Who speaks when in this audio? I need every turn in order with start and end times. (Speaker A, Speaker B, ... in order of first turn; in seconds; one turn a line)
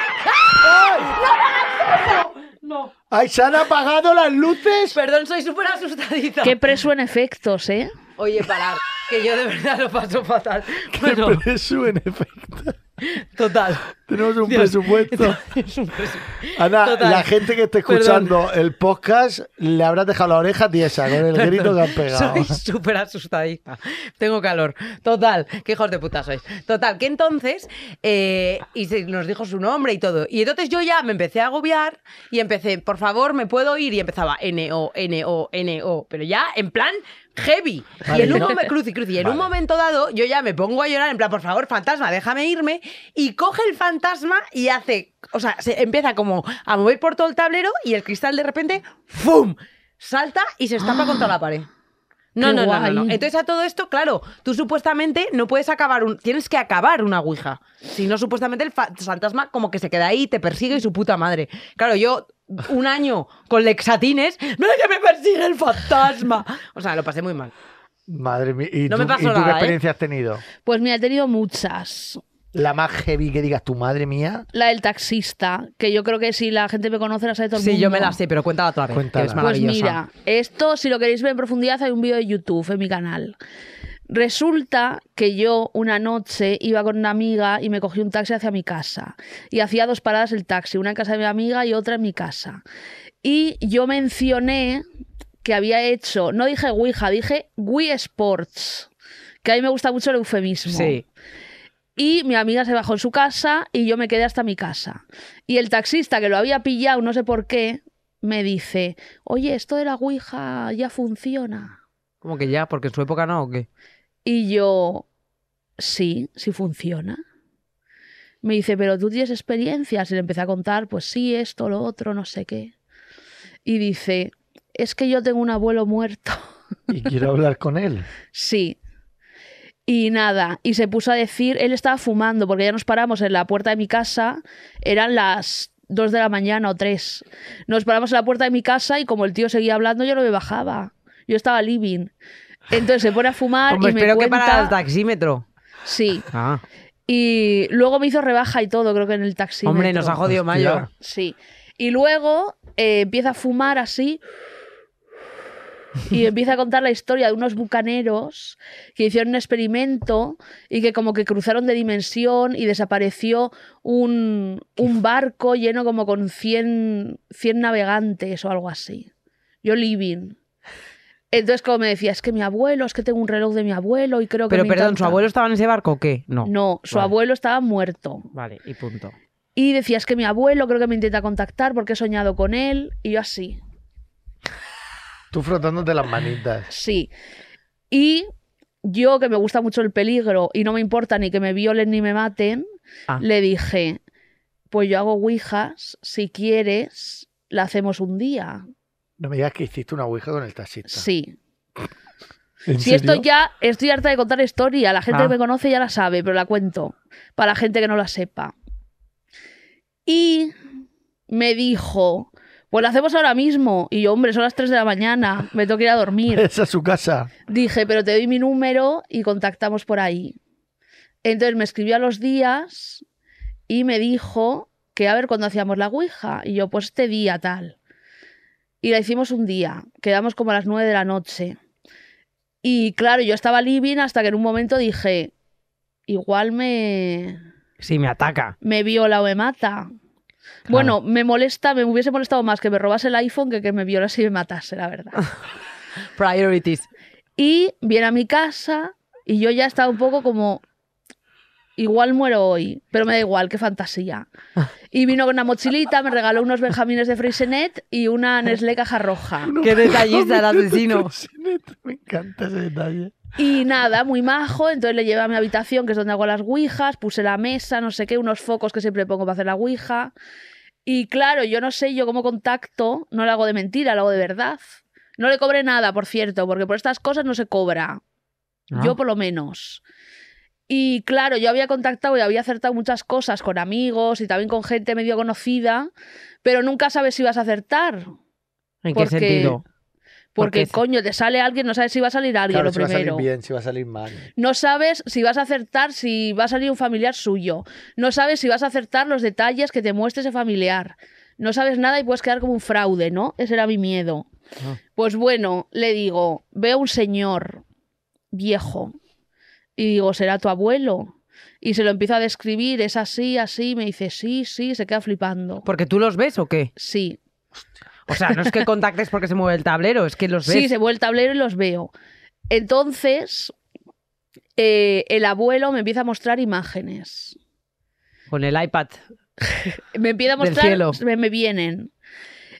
Speaker A: 0.2-2.9
Speaker B: 3.1-5.0
Speaker A: 4.9-6.6
Speaker C: 6.4-7.9
Speaker A: 8.2-11.4
Speaker B: 10.9-12.8
Speaker A: 13.0-13.8
Speaker B: 14.0-15.4
Speaker A: 14.4-18.4
Speaker B: 16.5-22.6
Speaker A: 21.2-51.7
Speaker B: 38.0-38.5
Speaker B: 39.2-39.5
Speaker A: 52.4-67.5
Speaker C: 52.4-53.2
Speaker B: 68.1-70.4
Speaker A: 68.9-69.8
Speaker C: 70.6-72.2
Speaker B: 72.5-74.5
Speaker C: 74.5-78.2
Speaker A: 77.5-80.0
Speaker B: 78.9-79.4
Speaker C: 79.4-83.3
Speaker C: 84.1-92.6
Speaker C: 93.2-94.8
Speaker C: 95.4-98.9
Speaker C: 99.4-101.0
Speaker A: 100.7-101.0
Speaker C: 102.0-111.8
Speaker A: 112.2-113.7
Speaker C: 114.2-115.0
Speaker C: 115.8-117.2
Speaker C: 118.4-122.7
Speaker C: 123.7-126.4
Speaker B: 126.9-128.1
Speaker C: 128.3-128.8
Speaker C: 129.9-142.1
Speaker C: 142.7-144.7
Speaker A: 143.7-145.4
Speaker C: 145.8-146.2
Speaker A: 146.3-146.6
Speaker C: 147.1-150.2
Speaker A: 149.6-150.9
Speaker B: 150.2-150.9
Speaker C: 151.0-154.2
Speaker C: 156.1-169.1
Speaker C: 169.6-170.4
Speaker C: 171.3-175.2
Speaker A: 174.5-177.1
Speaker C: 176.4-178.3
Speaker A: 178.3-179.1
Speaker C: 179.6-183.6
Speaker B: 185.3-186.7
Speaker C: 186.7-187.1
Speaker C: 187.9-188.3
Speaker C: 188.8-192.6
Speaker C: 193.2-194.0
Speaker C: 194.7-198.6
Speaker B: 199.2-201.1
Speaker C: 200.9-201.3
Speaker B: 202.7-203.2
Speaker C: 202.8-208.5
Speaker C: 210.1-210.5
Speaker C: 211.3-216.4
Speaker B: 216.3-217.3
Speaker C: 217.5-220.4
Speaker C: 221.2-223.0
Speaker C: 223.7-227.8
Speaker C: 228.8-231.6
Speaker C: 232.6-235.3
Speaker C: 236.1-237.4
Speaker A: 237.8-238.6
Speaker C: 238.6-239.9
Speaker C: 240.7-245.2
Speaker A: 246.2-246.9
Speaker C: 247.4-250.6
Speaker C: 251.8-254.3
Speaker C: 254.9-259.6
Speaker B: 259.4-263.1
Speaker A: 259.6-261.1
Speaker C: 263.4-270.1
Speaker C: 270.9-274.6
Speaker C: 275.2-278.0
Speaker C: 278.7-279.8
Speaker C: 280.7-285.9
Speaker C: 286.4-288.1
Speaker A: 288.8-289.6
Speaker C: 288.9-289.6
Speaker C: 290.4-293.3
Speaker A: 290.4-290.8
Speaker B: 292.5-294.3
Speaker C: 294.4-304.2
Speaker C: 304.9-307.6
Speaker C: 308.3-308.9
Speaker C: 309.8-315.7
Speaker A: 315.6-316.7
Speaker C: 316.8-317.2
Speaker A: 318.1-320.7
Speaker C: 320.4-321.9
Speaker C: 322.5-323.5
Speaker C: 324.6-327.4
Speaker A: 328.3-329.0
Speaker C: 329.5-331.9
Speaker A: 330.4-331.0